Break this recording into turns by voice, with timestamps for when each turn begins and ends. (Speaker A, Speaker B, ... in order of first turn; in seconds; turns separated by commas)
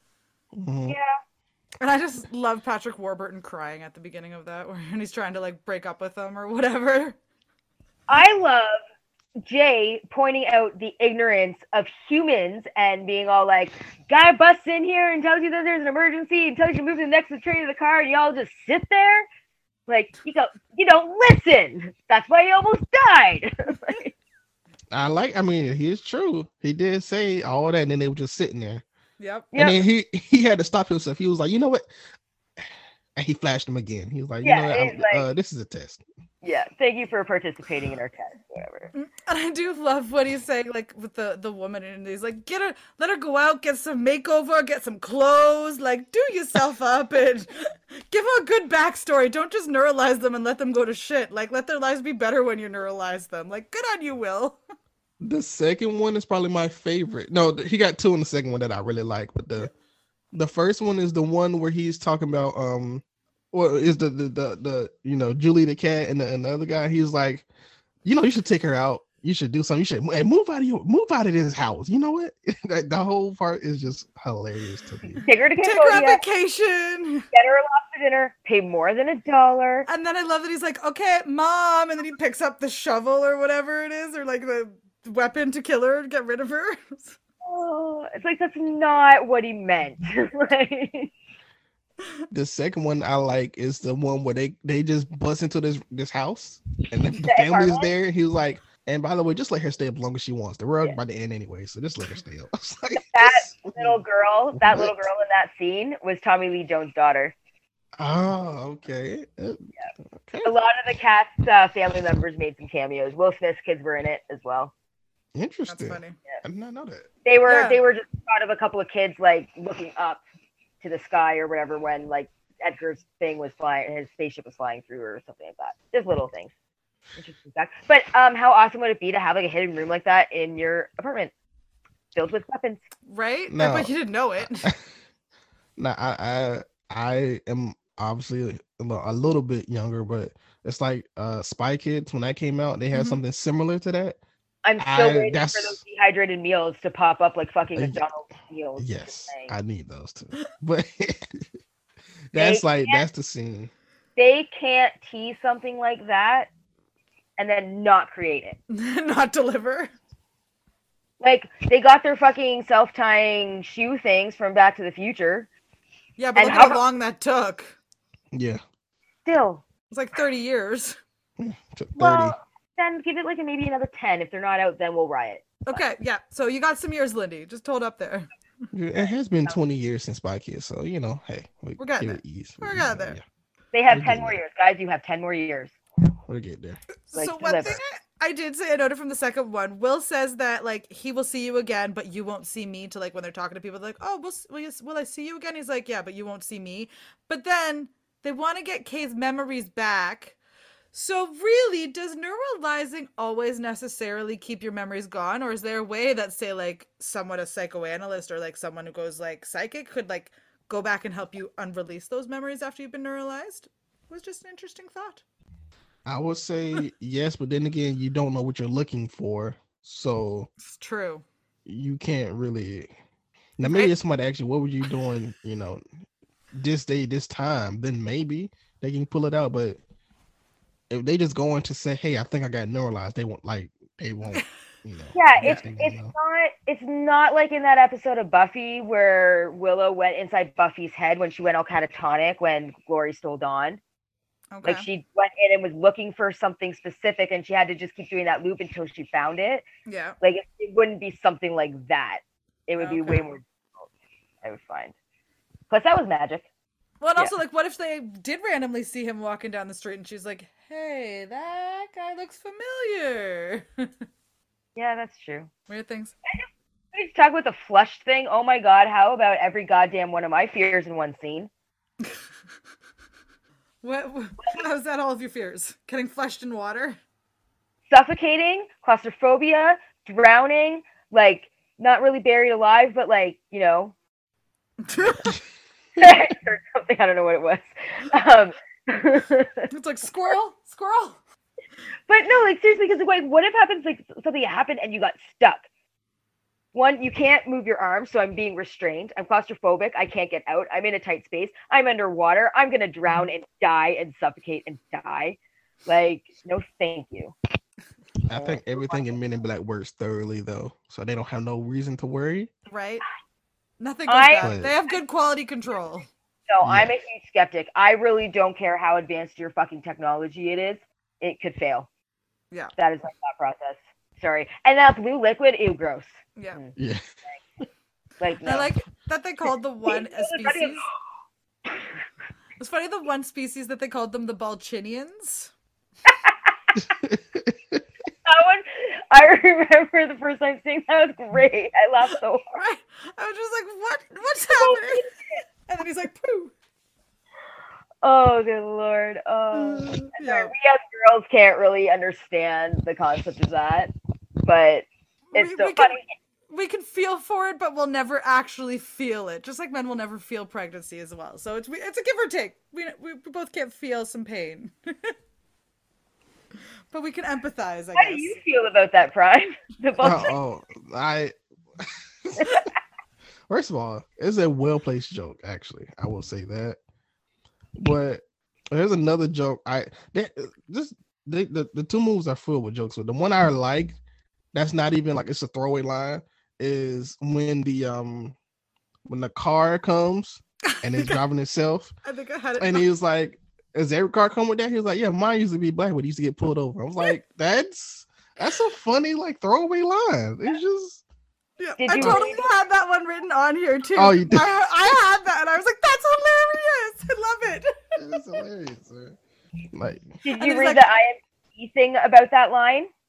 Speaker A: 0.5-1.0, Speaker B: 0.9-1.1, Speaker C: 1.8-7.2, Speaker B: 8.1-8.8, Speaker B: 9.4-19.3, Speaker B: 19.9-24.1, Speaker A: 24.9-28.8, Speaker C: 29.2-29.5, Speaker B: 29.5-29.8, Speaker A: 29.6-31.9, Speaker A: 32.6-36.0, Speaker B: 34.4-35.3, Speaker B: 36.4-38.9, Speaker C: 38.9-54.6, Speaker A: 55.2-59.7, Speaker A: 60.3-67.5, Speaker A: 68.0-75.2, Speaker B: 75.2-76.2, Speaker C: 75.6-77.3, Speaker B: 77.3-79.9, Speaker C: 79.9-87.2, Speaker B: 87.4-91.1, Speaker A: 92.3-104.0, Speaker B: 97.2-97.9, Speaker B: 103.0-107.3, Speaker A: 104.5-105.0, Speaker A: 108.0-110.5, Speaker B: 110.4-114.7, Speaker A: 115.3-117.1, Speaker C: 115.7-116.2, Speaker B: 117.2-120.2, Speaker C: 117.5-117.8, Speaker B: 120.8-126.5, Speaker B: 127.2-131.3, Speaker B: 132.2-132.9, Speaker C: 133.1-134.7, Speaker A: 133.5-134.8, Speaker A: 135.8-144.2, Speaker C: 142.9-143.2, Speaker B: 144.7-149.5, Speaker A: 144.8-145.8, Speaker A: 147.8-148.1, Speaker A: 148.8-151.5, Speaker A: 152.3-153.7, Speaker B: 152.4-153.0, Speaker B: 154.2-156.5, Speaker B: 157.4-158.6, Speaker C: 158.7-159.9, Speaker B: 161.2-165.5, Speaker C: 166.2-167.8, Speaker B: 166.4-166.8, Speaker A: 168.3-168.6, Speaker B: 169.3-169.6, Speaker C: 169.9-171.0, Speaker A: 171.4-172.4, Speaker B: 172.0-175.8, Speaker C: 175.7-178.3, Speaker A: 178.7-183.2, Speaker C: 181.8-183.2, Speaker B: 183.7-185.8, Speaker A: 183.9-184.4, Speaker A: 186.3-186.8, Speaker C: 187.1-200.4, Speaker B: 187.1-187.8, Speaker C: 200.9-215.2, Speaker A: 216.1-220.5, Speaker C: 220.6-221.2, Speaker A: 221.7-222.9, Speaker A: 223.6-225.8, Speaker C: 223.6-223.9, Speaker A: 226.5-229.8, Speaker A: 230.9-236.1, Speaker B: 235.1-243.8, Speaker C: 244.5-244.9, Speaker B: 244.6-249.7, Speaker C: 249.9-250.2, Speaker B: 250.2-253.9, Speaker C: 252.8-253.3, Speaker B: 254.4-254.9, Speaker B: 255.7-256.4, Speaker C: 257.0-263.9, Speaker B: 264.8-265.5, Speaker C: 265.7-266.1, Speaker B: 266.3-271.5, Speaker C: 273.8-277.0, Speaker B: 277.9-283.9, Speaker C: 284.9-285.4, Speaker B: 286.0-289.7, Speaker C: 289.7-291.2, Speaker B: 292.1-295.6, Speaker B: 296.7-307.3, Speaker A: 308.3-312.5, Speaker B: 308.3-309.1, Speaker C: 312.7-313.0, Speaker C: 313.8-316.1, Speaker B: 314.1-314.6, Speaker A: 314.4-314.7, Speaker B: 316.5-321.9, Speaker A: 316.6-316.9, Speaker B: 322.8-326.8, Speaker A: 326.8-327.1, Speaker B: 328.2-328.7, Speaker C: 328.4-330.9, Speaker B: 329.9-330.9, Speaker C: 332.6-335.5, Speaker B: 336.1-336.5, Speaker A: 336.8-337.8, Speaker B: 338.2-342.4, Speaker C: 342.5-345.1, Speaker B: 344.5-345.4, Speaker C: 345.7-346.5, Speaker B: 348.0-353.9, Speaker C: 349.5-350.5, Speaker B: 354.4-356.0, Speaker C: 355.3-356.0, Speaker C: 356.5-365.1, Speaker C: 366.9-368.4, Speaker B: 367.9-370.3, Speaker A: 370.0-372.6, Speaker A: 373.5-376.8, Speaker A: 377.8-384.0, Speaker A: 384.5-388.4, Speaker A: 389.1-391.9, Speaker C: 390.8-391.2, Speaker C: 392.1-392.9, Speaker A: 392.6-401.0, Speaker C: 401.6-407.7, Speaker B: 401.8-402.5, Speaker A: 402.0-402.2, Speaker A: 404.0-404.9, Speaker A: 408.0-409.2, Speaker A: 409.7-410.2, Speaker B: 410.2-412.9, Speaker C: 410.3-410.9